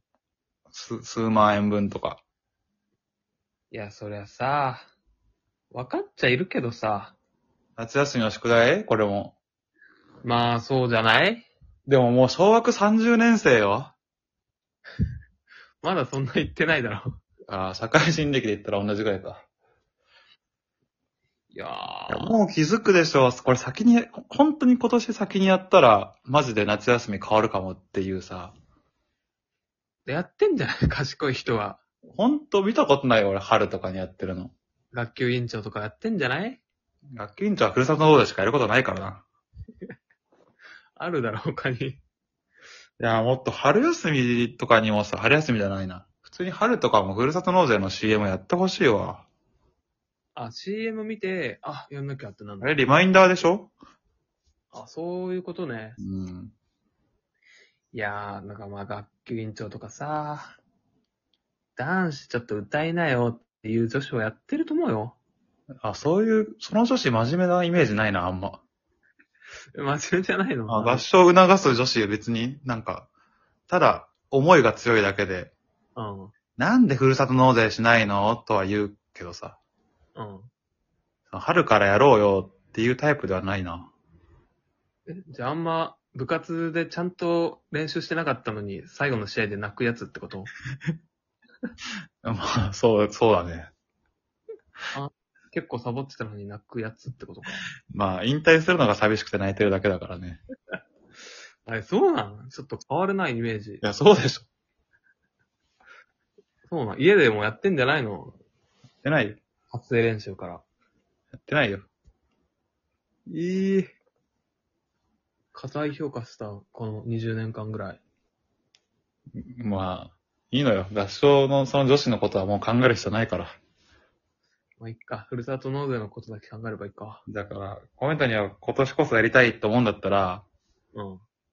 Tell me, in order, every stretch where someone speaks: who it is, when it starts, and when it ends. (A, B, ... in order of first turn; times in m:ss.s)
0:00.7-0:02.2 A
0:03.7-0:04.9 B
0:05.7-0:07.2 B
0:07.8-0:09.4 A
0:10.2-0:11.5 B
0:11.9-0:13.9 A
0:15.8-0:17.2 B
0:17.5-0:19.4 A
0:21.5-0:22.4 B
0:22.1-0:28.5 A
0:30.1-0:31.8 B
0:32.1-0:34.5 A
0:34.9-0:36.6 B
0:37.2-0:39.2 A
0:41.0-0:42.0 B
0:43.0-0:49.3 A
0:50.4-0:52.7 B
0:52.6-0:53.7 A
0:54.7-0:56.0 B
0:56.0-0:56.5 A
0:57.9-1:00.6 B
1:01.8-1:05.2 B
1:05.8-1:08.6 A
1:09.7-1:11.0 B
1:10.7-1:13.1 A
1:13.7-1:15.5 A
1:16.0-1:16.3 B
1:16.6-1:19.6 A
1:20.2-1:20.5 B
1:21.3-1:23.9 A
1:25.1-1:30.5 B
1:32.2-1:33.7 A
1:34.9-1:37.7 B
1:37.9-1:40.4 A
1:41.7-1:43.8 B
1:43.8-1:44.5 A
1:46.7-1:48.4 B
1:49.0-1:49.4 A
1:49.7-1:50.6 B
1:51.5-1:51.9 A
1:53.3-1:53.9 A
1:55.5-1:58.0 B
1:59.4-2:03.6 A
2:04.8-2:07.2 B
2:07.3-2:10.4 A
2:10.9-2:11.2 B